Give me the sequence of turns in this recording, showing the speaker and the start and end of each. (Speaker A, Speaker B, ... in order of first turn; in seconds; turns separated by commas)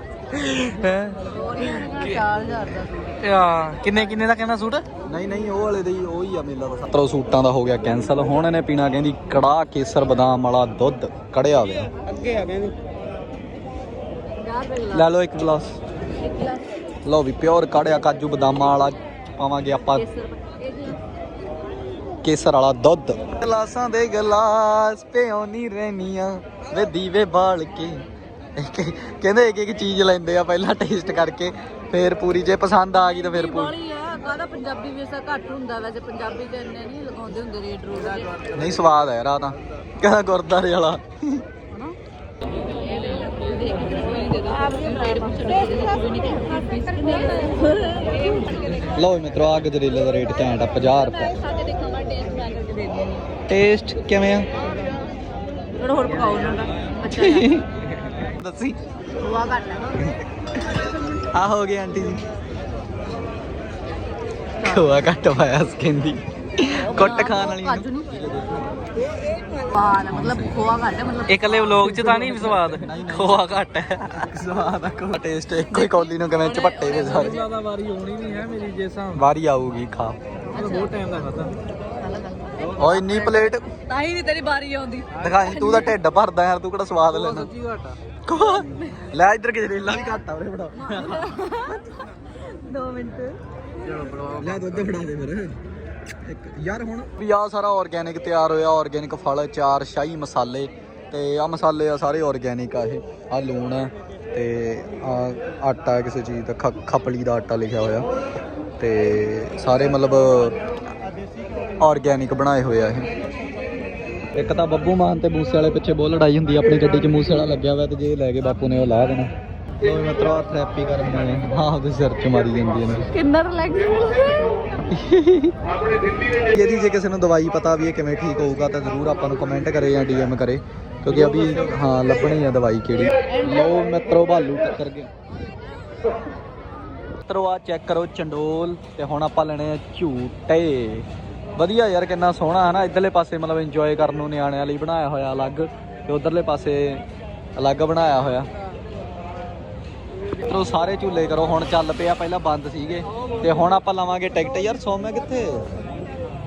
Speaker A: 0.3-2.2, Speaker B: 1.2-3.2, Speaker A: 3.2-4.8, Speaker C: 5.0-11.9, Speaker A: 12.2-12.7, Speaker B: 14.4-15.1, Speaker C: 14.9-15.8, Speaker B: 16.2-16.7, Speaker C: 17.0-20.1, Speaker B: 19.9-21.0, Speaker C: 22.2-28.0, Speaker C: 28.6-33.7, Speaker B: 33.0-38.5, Speaker A: 38.2-38.9, Speaker C: 38.5-41.4, Speaker B: 42.6-49.0, Speaker C: 48.9-51.3, Speaker B: 51.2-53.2, Speaker C: 53.5-54.5, Speaker B: 55.8-57.5, Speaker C: 57.0-57.7, Speaker C: 58.2-58.8, Speaker B: 59.2-60.0, Speaker C: 59.9-62.2, Speaker C: 64.6-68.9, Speaker B: 66.7-68.2, Speaker B: 69.4-71.9, Speaker C: 70.0-70.7, Speaker A: 71.3-74.2, Speaker C: 71.8-77.4, Speaker B: 75.7-77.4, Speaker A: 77.0-79.2, Speaker C: 79.1-80.2, Speaker B: 80.5-81.1, Speaker A: 80.5-81.5, Speaker B: 82.0-85.9, Speaker C: 82.8-83.7, Speaker C: 85.2-87.5, Speaker A: 85.2-85.7, Speaker A: 87.1-88.0, Speaker C: 88.2-91.4, Speaker B: 88.4-89.0, Speaker B: 90.8-93.4, Speaker A: 93.8-94.9, Speaker C: 94.4-108.1, Speaker C: 108.8-110.6, Speaker C: 111.8-113.1, Speaker C: 114.3-123.1, Speaker B: 123.1-124.9, Speaker C: 124.9-125.6, Speaker C: 126.3-135.1, Speaker B: 133.3-133.8, Speaker C: 137.2-147.0, Speaker C: 147.6-148.5, Speaker C: 150.4-155.7